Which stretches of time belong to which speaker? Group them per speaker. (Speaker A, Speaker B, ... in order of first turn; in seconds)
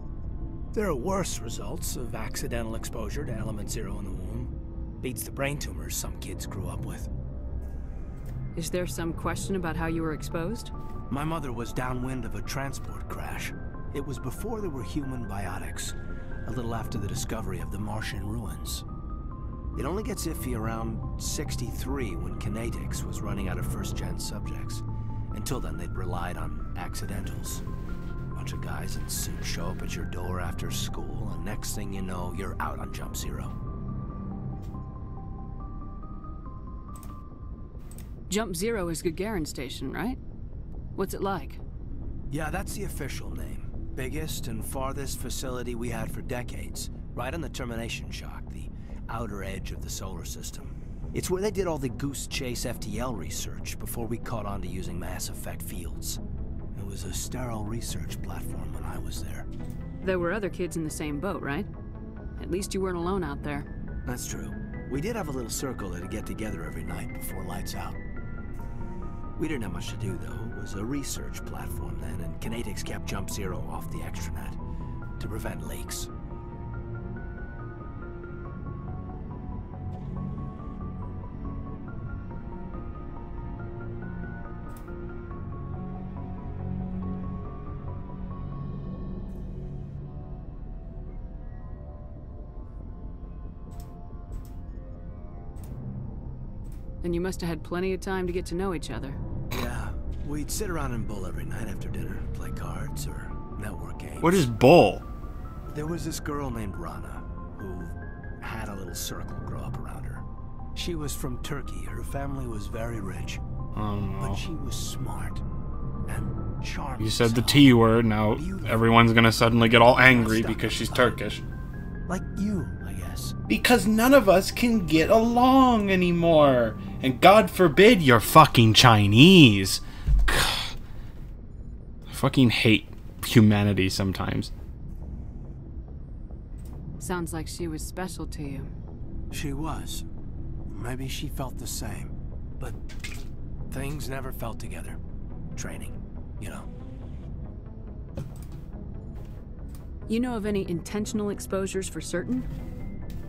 Speaker A: 0.7-7.1, 11.1-18.8, 19.8-27.6, 28.3-33.5, 42.3-56.2, 56.7-59.5, 64.1-68.0, 69.4-74.6, 75.2-76.1, 99.5-104.5, 105.7-110.2, 110.8-113.4, 114.2-115.4, 116.1-121.2, 122.1-123.3, 139.3-140.0, 140.7-142.8, 143.7-145.0, 145.6-146.7
Speaker B: 8.5-10.7, 38.3-40.2, 41.0-41.6, 60.0-61.7, 62.4-63.7, 97.0-99.2, 137.0-138.7, 150.1-152.5
Speaker C: 104.2-105.0, 113.7-114.4, 117.0-121.4, 123.5-130.8, 132.1-134.5